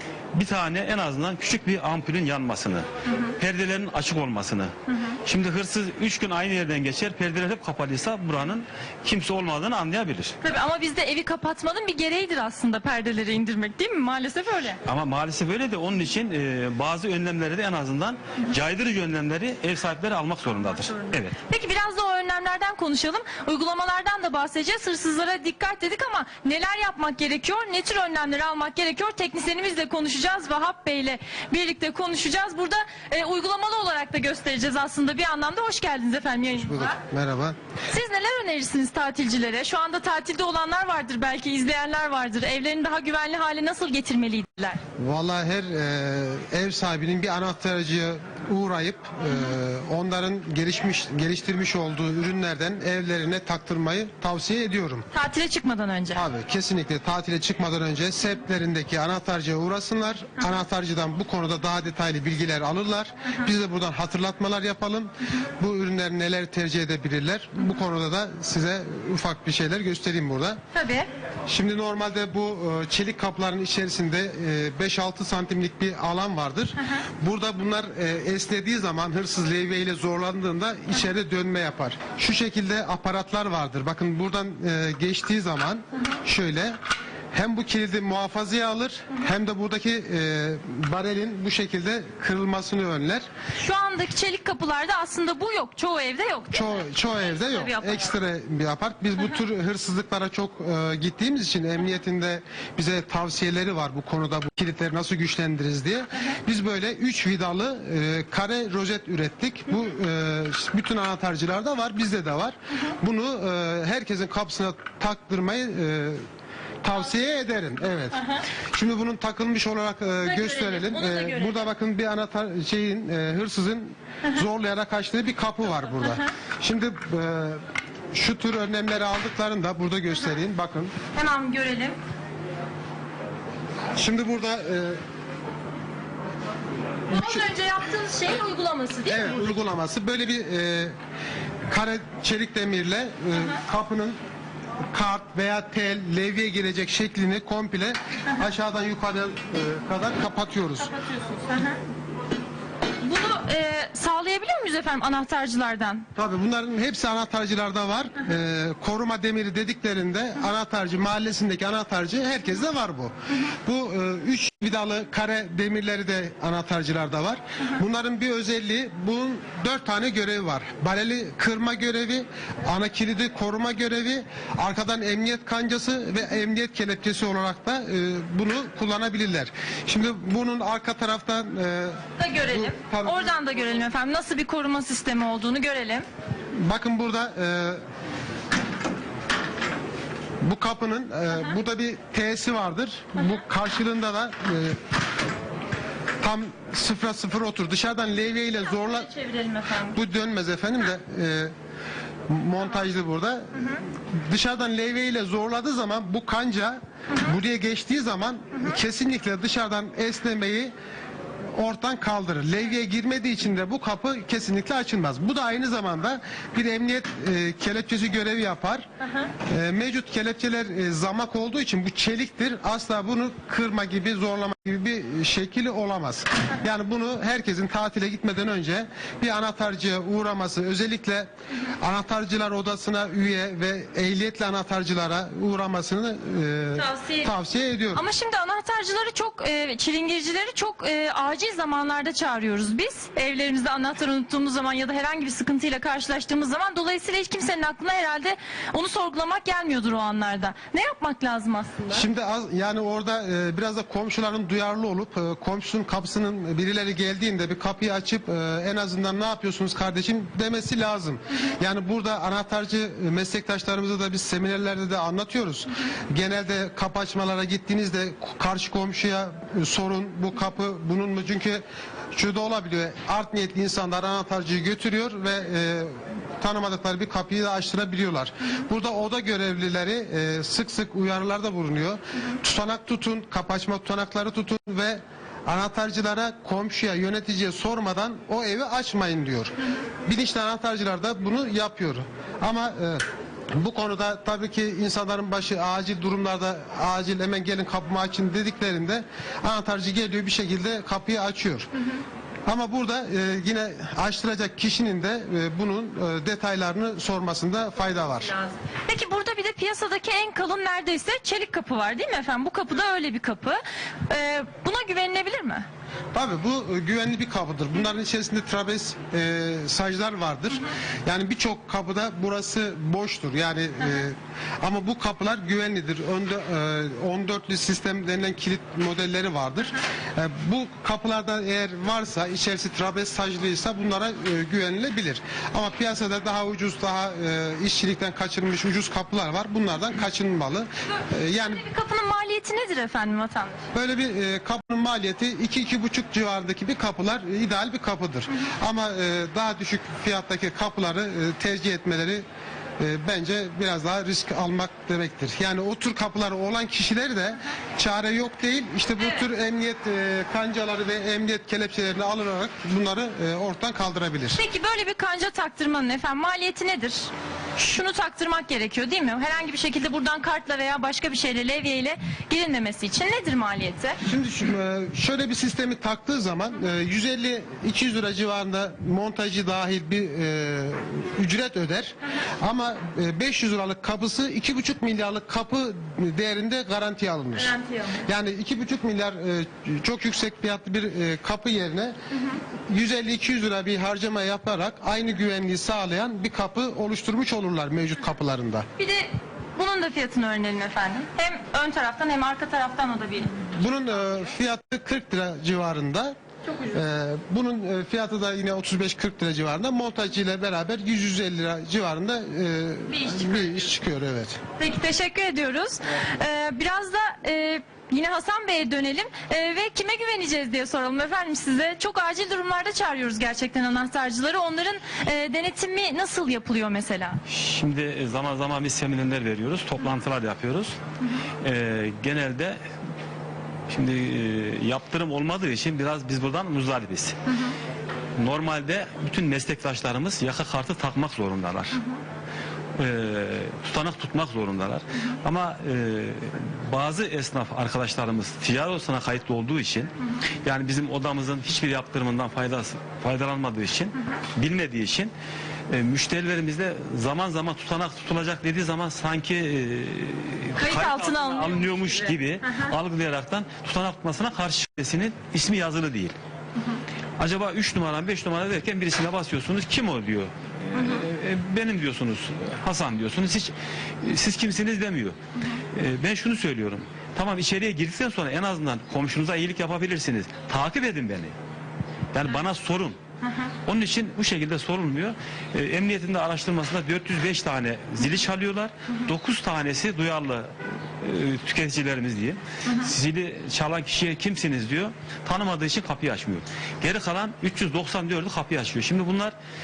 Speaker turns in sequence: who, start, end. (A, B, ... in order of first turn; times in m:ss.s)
0:00.3-0:04.7 A
0:05.2-0:10.3 A
0:10.4-0:14.8 B
0:14.8-0:21.4 A
0:21.0-0:37.0 B
0:36.5-0:37.6 C
0:37.9-0:44.8 B
0:45.0-0:55.1 C
0:55.1-0:56.2 B
0:56.1-1:10.6 C
1:10.7-1:11.1 B
1:11.5-1:26.8 C
1:27.3-1:33.2 C
1:33.5-1:38.1 B
1:36.5-1:56.2 C
1:56.8-2:07.6 C
1:58.1-1:58.4 B
2:00.2-2:01.7 B
2:08.1-2:10.9 C
2:11.1-2:12.0 B
2:14.0-2:15.0 C
2:17.1-2:19.6 B
2:17.1-2:17.5 C
2:19.1-2:20.9 C
2:21.7-2:24.2 C
2:24.9-2:30.9 C
2:30.8-2:31.8 B
2:33.0-2:36.1 B
2:36.1-3:03.6 C
3:02.2-3:06.1 B
3:06.5-3:07.8 C
3:10.4-3:14.8 C
3:16.2-3:19.1 C
3:18.6-3:20.0 B
3:19.9-3:21.5 C
3:22.3-3:30.7 C
3:31.5-3:38.9 C
3:39.5-3:58.0 C
3:56.8-3:57.3 B
3:57.9-4:12.0 B
4:11.9-5:01.7 C
5:02.5-5:08.3 C
5:08.4-5:15.7 B
5:16.1-5:41.6 C
5:41.5-5:43.6 B
5:43.7-5:52.2 C
5:52.8-6:04.4 C
5:59.0-5:59.2 B
6:04.4-6:14.0 B
6:14.0-6:31.9 C
6:27.5-6:28.0 B
6:32.7-6:38.6 C
6:38.8-6:44.3 B
6:43.5-6:46.1 C
6:46.4-6:46.8 B
6:46.7-6:54.4 C
6:52.9-6:53.6 B
6:54.6-7:07.2 B
7:07.3-7:10.8 A
7:11.4-7:12.6 A
7:13.7-7:17.2 A
7:18.2-7:21.8 A
7:22.8-7:29.9 A
7:30.4-7:35.1 A
7:35.7-7:46.2 A
7:40.6-7:42.7 B
7:47.2-7:55.2 A
7:50.7-7:51.0 B
7:55.7-8:01.3 A
8:02.1-8:03.0 A
8:03.2-8:03.5 B
8:03.6-8:19.3 A